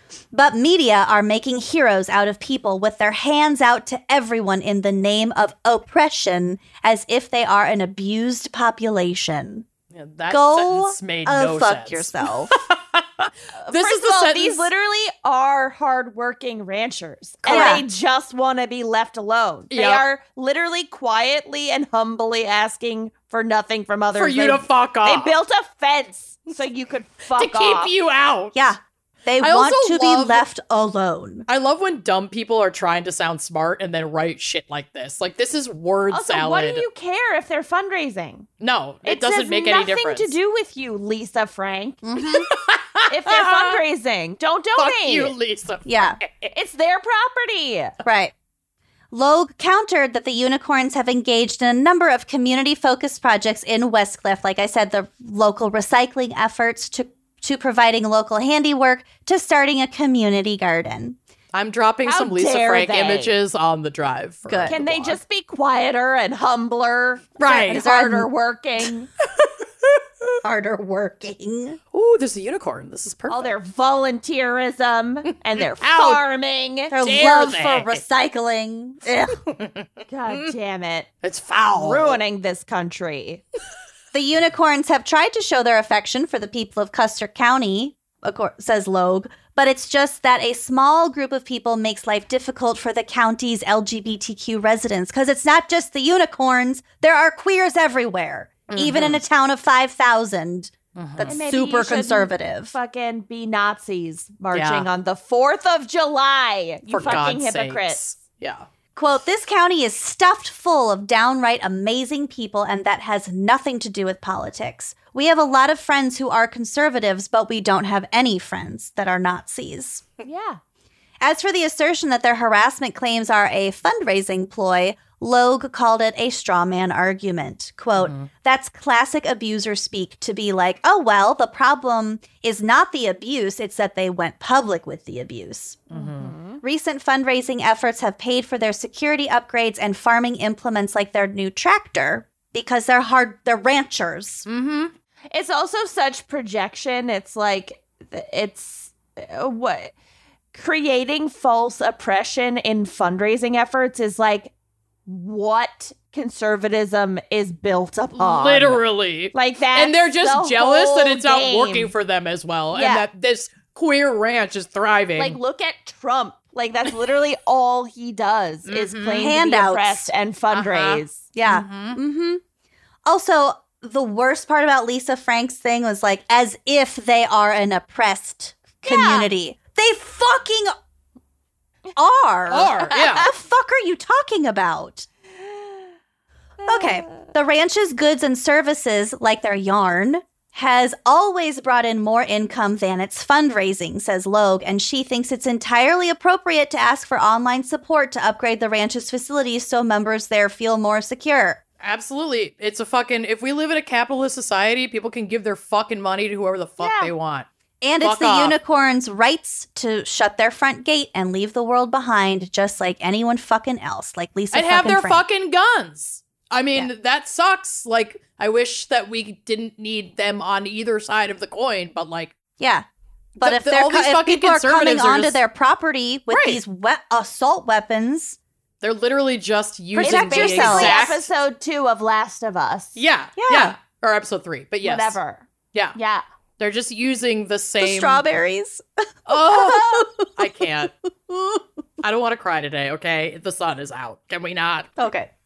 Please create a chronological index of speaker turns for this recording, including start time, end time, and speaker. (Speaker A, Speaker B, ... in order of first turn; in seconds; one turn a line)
Speaker A: 0.3-9.7
Speaker B: 9.9-14.7
Speaker A: 10.3-12.5
Speaker C: 13.7-27.9
Speaker B: 17.4-17.8
Speaker A: 17.5-17.8
Speaker B: 19.7-20.0
Speaker B: 24.1-25.3
Speaker B: 27.4-28.6
Speaker A: 28.5-31.4
Speaker B: 29.4-30.4
Speaker B: 31.5-36.9
Speaker C: 36.1-38.5
Speaker B: 38.6-40.4
Speaker C: 39.0-42.0
Speaker A: 42.0-42.5
Speaker B: 42.2-43.8
Speaker C: 43.1-45.3
Speaker B: 44.8-46.5
Speaker A: 45.9-46.2
Speaker C: 46.5-47.9
Speaker A: 48.0-48.3
Speaker A: 49.1-61.2
Speaker B: 61.5-65.2
Speaker C: 62.0-63.3
Speaker A: 64.5-64.8
Speaker C: 64.7-69.1
Speaker B: 67.4-68.1
Speaker A: 67.6-68.3
Speaker A: 70.4-71.8
Speaker B: 71.9-73.5
Speaker C: 73.3-76.9
Speaker B: 75.6-76.2
Speaker A: 76.9-79.4
Speaker B: 77.0-78.0
Speaker B: 79.4-80.5
Speaker C: 80.1-81.1
Speaker B: 81.2-82.2
Speaker C: 81.7-83.4
Speaker A: 84.1-102.7
Speaker B: 98.7-99.2
Speaker B: 101.0-101.4
Speaker C: 101.2-108.0
Speaker B: 104.5-104.9
Speaker B: 106.9-108.7
Speaker A: 109.0-120.0
Speaker C: 120.2-120.6
Speaker A: 121.2-135.8
Speaker B: 128.0-128.3
Speaker B: 135.9-136.3
Speaker C: 135.9-136.6
Speaker A: 136.6-144.4
Speaker B: 144.4-144.9
Speaker C: 145.3-149.9
Speaker C: 150.5-154.5
Speaker C: 155.1-158.8
Speaker B: 158.1-165.4
Speaker C: 159.3-161.9
Speaker C: 162.7-163.0
Speaker C: 165.2-171.3
Speaker B: 168.7-169.3
Speaker A: 169.1-170.1
Speaker B: 170.5-172.0
Speaker A: 171.3-172.4
Speaker A: 173.0-180.7
Speaker C: 178.8-179.3
Speaker A: 181.9-185.1
Speaker B: 182.5-183.3
Speaker C: 186.6-187.0
Speaker A: 186.7-201.6
Speaker B: 201.8-207.5
Speaker C: 206.8-207.1
Speaker A: 207.8-215.2
Speaker B: 208.0-208.6
Speaker B: 214.5-222.3
Speaker A: 222.6-228.4
Speaker B: 223.4-225.4
Speaker B: 226.3-226.6
Speaker B: 228.8-231.3
Speaker A: 230.0-231.1
Speaker C: 230.0-233.0
Speaker B: 232.9-235.2
Speaker A: 233.4-233.7
Speaker C: 234.8-236.2
Speaker B: 236.6-238.2
Speaker A: 237.8-240.2
Speaker B: 239.3-240.9
Speaker A: 241.3-241.6
Speaker B: 242.0-244.9
Speaker A: 245.0-245.3